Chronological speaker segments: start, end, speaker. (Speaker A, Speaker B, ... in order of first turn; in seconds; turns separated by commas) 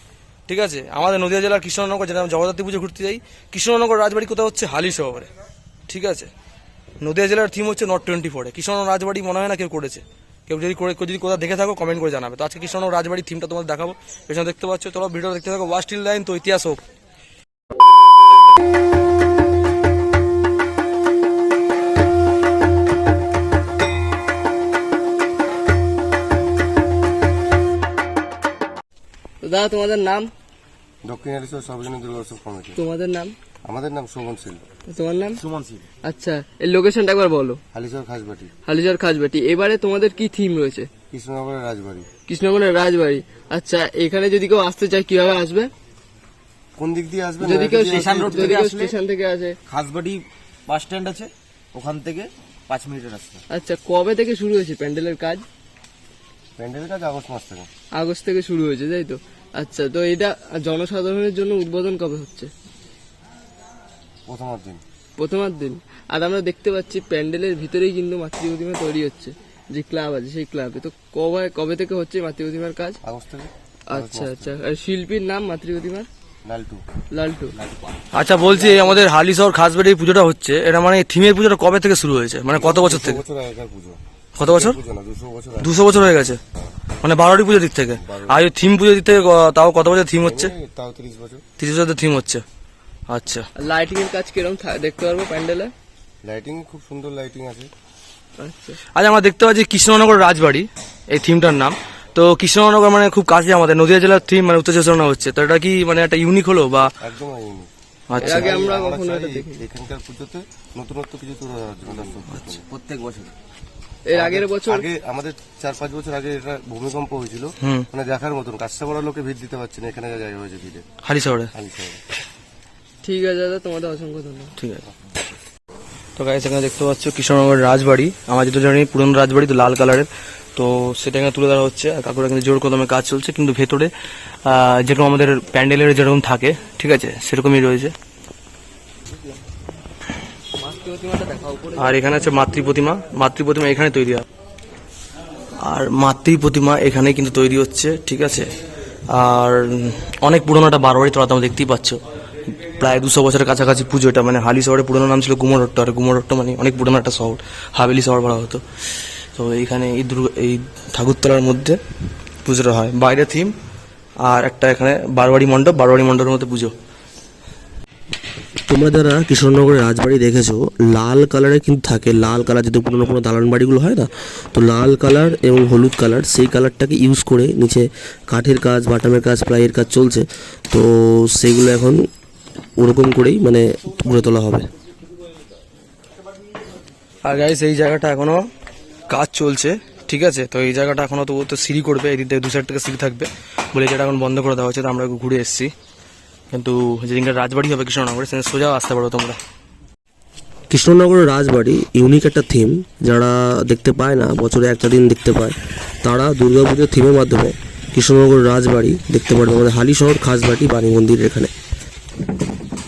Speaker A: 0.5-5.3, Speaker A: 5.9-6.3, Speaker A: 7.0-16.8, Speaker B: 29.4-30.3, Speaker C: 31.0-32.8, Speaker B: 32.8-33.3, Speaker C: 33.6-34.6, Speaker B: 34.9-35.4, Speaker D: 35.4-35.8, Speaker B: 36.0-37.6, Speaker C: 37.7-38.5, Speaker B: 38.6-40.9, Speaker C: 41.1-42.1, Speaker B: 42.3-45.7, Speaker C: 46.8-48.8, Speaker B: 47.4-49.6, Speaker D: 47.8-48.9, Speaker D: 49.7-53.4, Speaker B: 53.5-55.5, Speaker C: 56.6-57.7, Speaker B: 57.9-62.5, Speaker C: 64.3-64.8, Speaker B: 65.2-73.0, Speaker C: 73.0-74.5, Speaker B: 73.9-76.1, Speaker C: 76.4-76.8, Speaker B: 77.1-77.5, Speaker A: 78.1-83.2, Speaker C: 82.5-85.8, Speaker A: 84.4-84.8, Speaker A: 85.6-86.4, Speaker A: 87.0-90.5, Speaker C: 88.0-88.4, Speaker C: 90.2-91.4, Speaker A: 91.6-92.4, Speaker A: 93.1-93.5, Speaker B: 93.6-95.7, Speaker C: 96.2-97.7, Speaker B: 98.4-98.8, Speaker A: 98.9-106.9, Speaker C: 107.0-113.2, Speaker A: 108.1-108.6, Speaker B: 108.2-109.6, Speaker D: 112.7-113.3, Speaker B: 114.0-114.9, Speaker C: 114.1-120.8, Speaker A: 117.6-117.9, Speaker A: 121.0-121.5, Speaker C: 121.5-122.0, Speaker B: 123.0-124.5, Speaker A: 126.2-133.9, Speaker A: 134.4-137.9, Speaker B: 140.5-142.3, Speaker A: 141.8-144.2, Speaker A: 145.6-148.5, Speaker A: 149.1-152.0, Speaker A: 152.6-158.6, Speaker A: 159.3-161.8, Speaker A: 162.4-163.5, Speaker A: 164.2-166.7, Speaker E: 168.7-182.1, Speaker E: 182.8-184.7, Speaker A: 187.2-188.4, Speaker A: 189.1-195.7, Speaker A: 196.5-199.4, Speaker E: 200.7-211.5